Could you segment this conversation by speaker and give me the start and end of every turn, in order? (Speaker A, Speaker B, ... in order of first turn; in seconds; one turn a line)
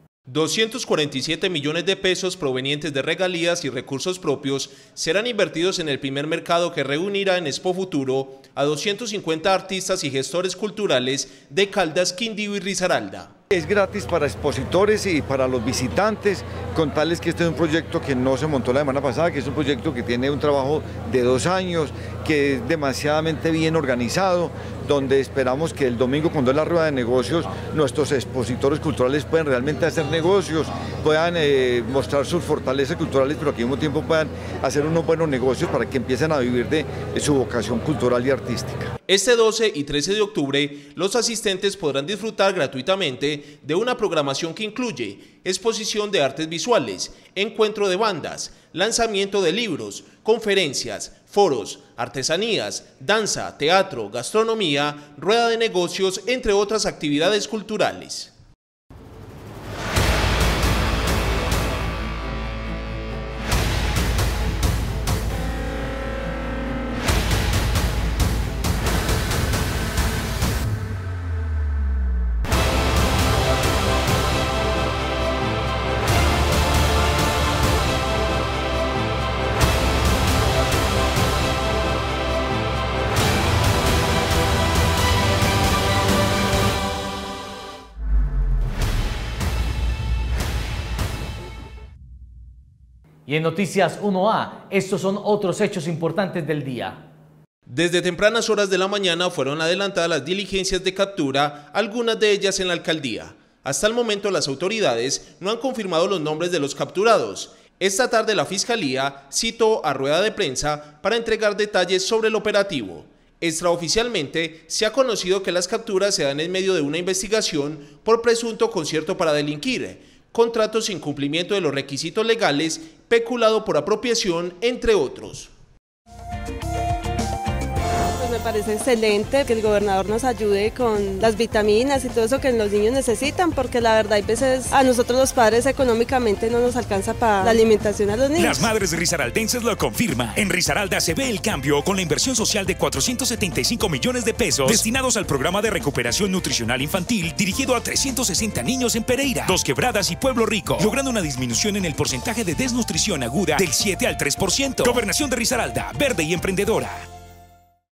Speaker A: 0.3-13.3
Speaker B: 13.5-38.9
Speaker A: 39.1-58.3
Speaker C: 93.3-97.0
Speaker A: 97.7-125.5
Speaker D: 128.2-138.7
Speaker E: 138.4-157.1